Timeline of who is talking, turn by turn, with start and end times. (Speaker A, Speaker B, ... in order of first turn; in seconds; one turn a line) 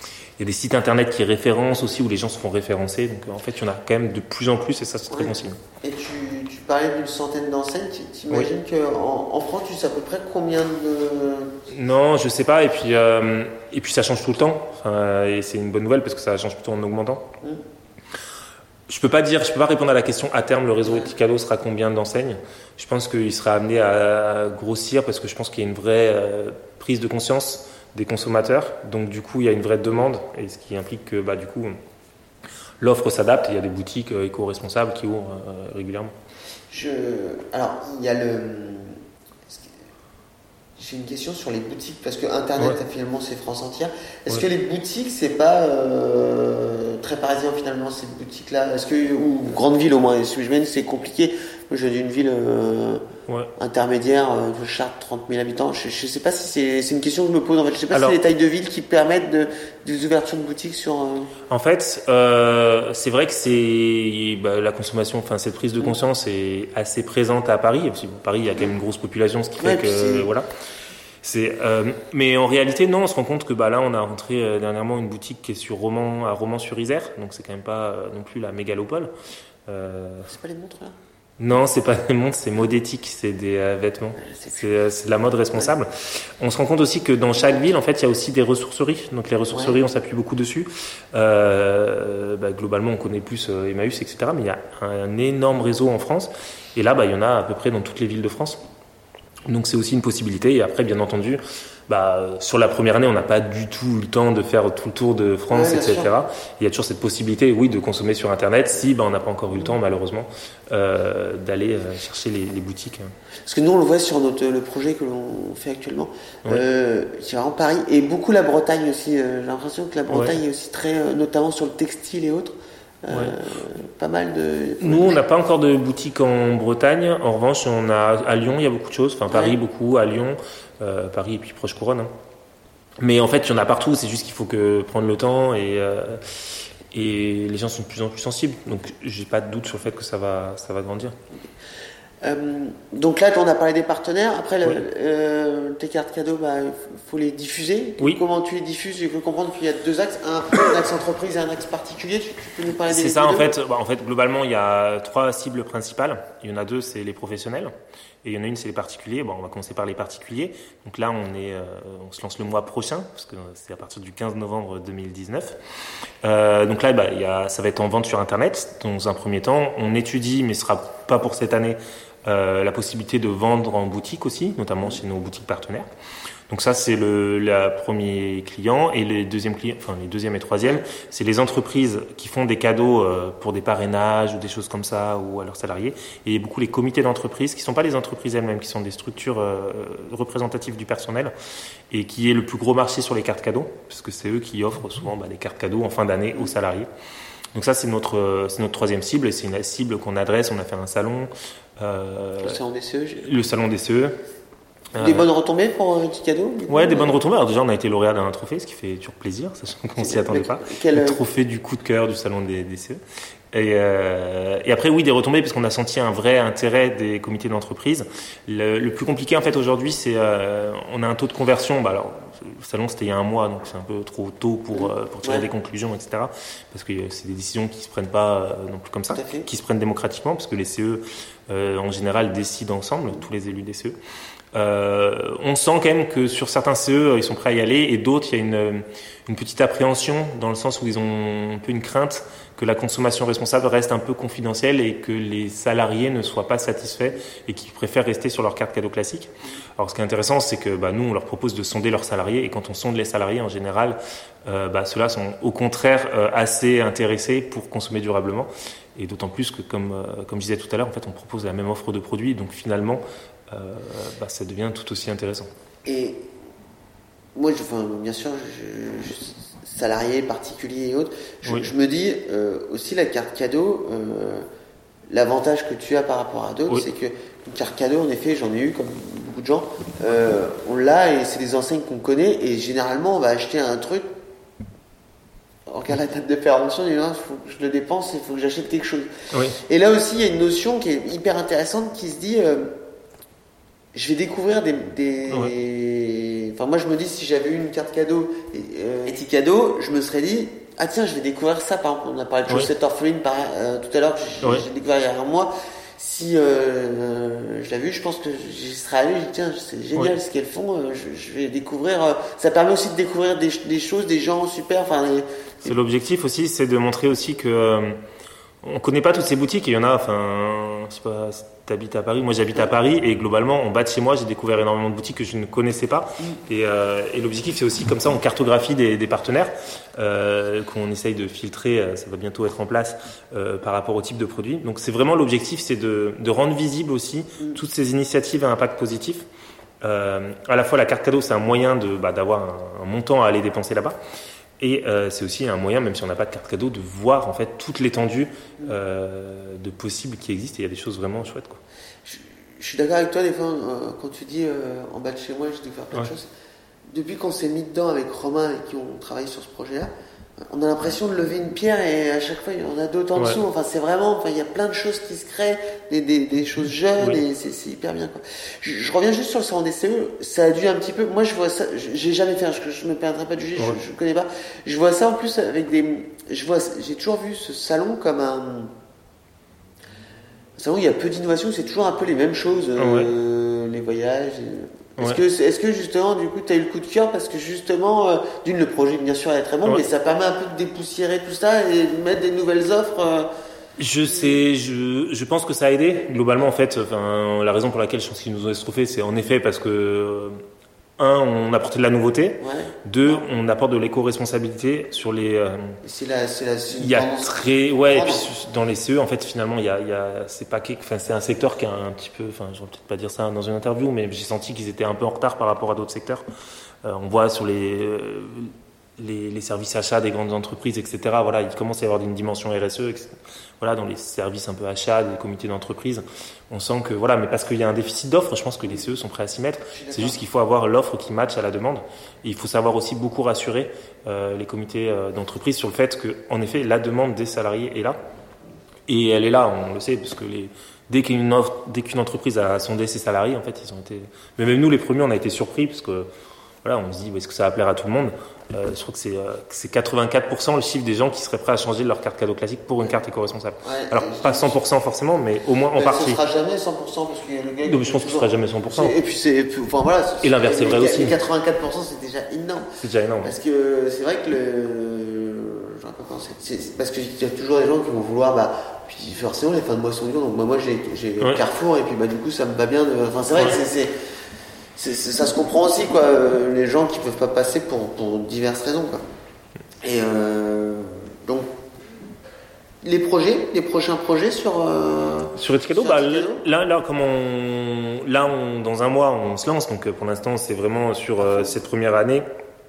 Speaker A: 0.4-5.6
Speaker B: 5.1-11.7
Speaker A: 11.7-17.4
Speaker A: 18.9-31.7
Speaker B: 20.9-21.1
Speaker A: 32.8-36.1
Speaker B: 36.7-39.7
Speaker B: 40.8-53.0
Speaker B: 53.6-61.3
Speaker A: 57.9-58.2
Speaker A: 61.5-70.5
Speaker B: 69.6-70.3
Speaker A: 71.2-79.1
Speaker A: 79.7-80.3
Speaker B: 80.2-81.0
Speaker A: 81.4-98.6
Speaker B: 84.2-84.6
Speaker A: 99.5-113.1
Speaker B: 105.5-106.1
Speaker B: 113.5-125.2
Speaker A: 120.1-120.4
Speaker A: 123.1-123.3
Speaker A: 124.8-132.1
Speaker B: 129.3-129.6
Speaker A: 133.0-141.2
Speaker B: 142.2-153.5
Speaker A: 152.9-157.7
Speaker A: 158.2-165.6
Speaker A: 166.2-175.9
Speaker A: 176.5-191.3
Speaker A: 191.9-196.9
Speaker A: 197.5-202.6
Speaker B: 202.4-203.3
Speaker A: 203.2-204.2
Speaker A: 204.9-205.2
Speaker B: 205.0-207.2
Speaker A: 206.7-213.0
Speaker B: 210.0-211.2
Speaker A: 213.5-234.0
Speaker B: 229.1-229.5
Speaker A: 234.5-265.5
Speaker B: 265.8-266.3
Speaker B: 267.3-274.5
Speaker A: 271.4-271.7
Speaker B: 275.1-284.1
Speaker B: 285.7-292.8
Speaker A: 289.3-289.6
Speaker B: 293.9-315.2
Speaker A: 315.6-318.0
Speaker A: 318.6-339.2
Speaker A: 339.8-344.0
Speaker A: 344.6-351.6
Speaker B: 352.1-356.3
Speaker B: 356.9-359.9
Speaker B: 360.4-378.7
Speaker A: 363.1-363.4
Speaker B: 380.6-393.3
Speaker A: 382.8-383.1
Speaker A: 393.8-400.4
Speaker A: 401.0-405.8
Speaker B: 402.4-403.2
Speaker B: 405.8-408.2
Speaker A: 406.7-416.2
Speaker A: 416.8-438.0
Speaker B: 429.7-430.2
Speaker A: 438.9-446.1
Speaker A: 446.6-456.2
Speaker B: 453.6-454.6
Speaker B: 455.7-473.9
Speaker A: 457.6-458.9
Speaker A: 460.2-461.1
Speaker A: 462.8-463.3
Speaker B: 474.8-479.0
Speaker B: 479.8-481.5
Speaker B: 482.8-486.4
Speaker A: 485.4-492.2
Speaker B: 491.2-491.5